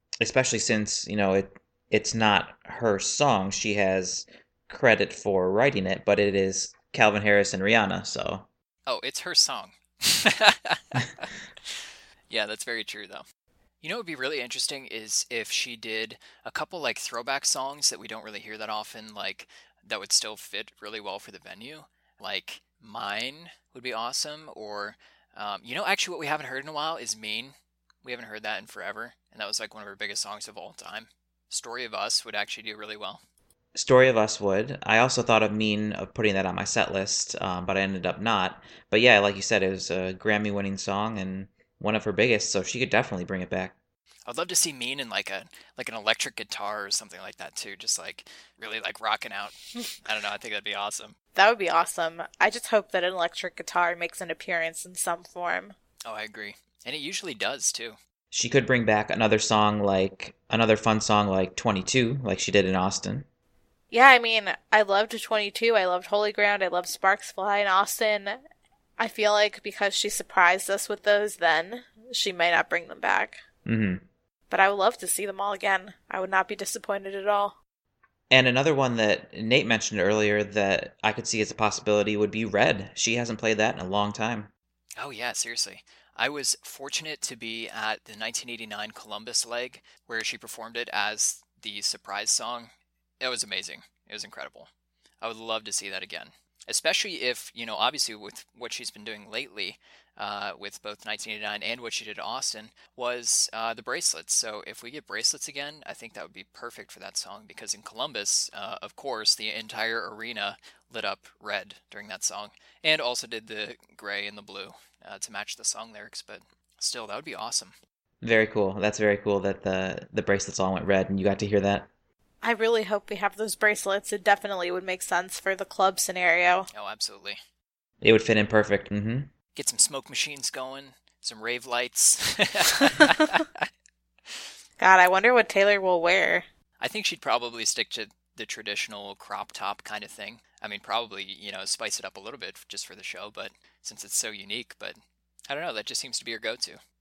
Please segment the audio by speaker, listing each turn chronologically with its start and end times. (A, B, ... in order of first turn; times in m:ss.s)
0:00.2-0:08.5 A
0:08.9-0:13.2 B
0:13.8-0:33.2 B
0:33.8-0:43.8 A
0:44.3-0:51.2 B
0:51.4-0:55.8 C
0:56.1-0:58.0 B
0:58.3-1:03.2 A
1:03.9-1:08.4 C
1:09.0-1:13.4 C
1:13.6-1:14.0 A
1:14.5-1:17.6 C
1:18.3-1:24.5 A
1:25.0-1:32.7 B
1:33.2-1:34.7 B
1:35.2-1:57.7 B
1:58.2-2:01.9 A
2:02.4-2:06.7 C
2:06.7-2:07.4 B
2:08.0-2:09.3 A
2:09.6-2:13.7 B
2:14.8-2:16.4 C
2:16.8-2:26.8 B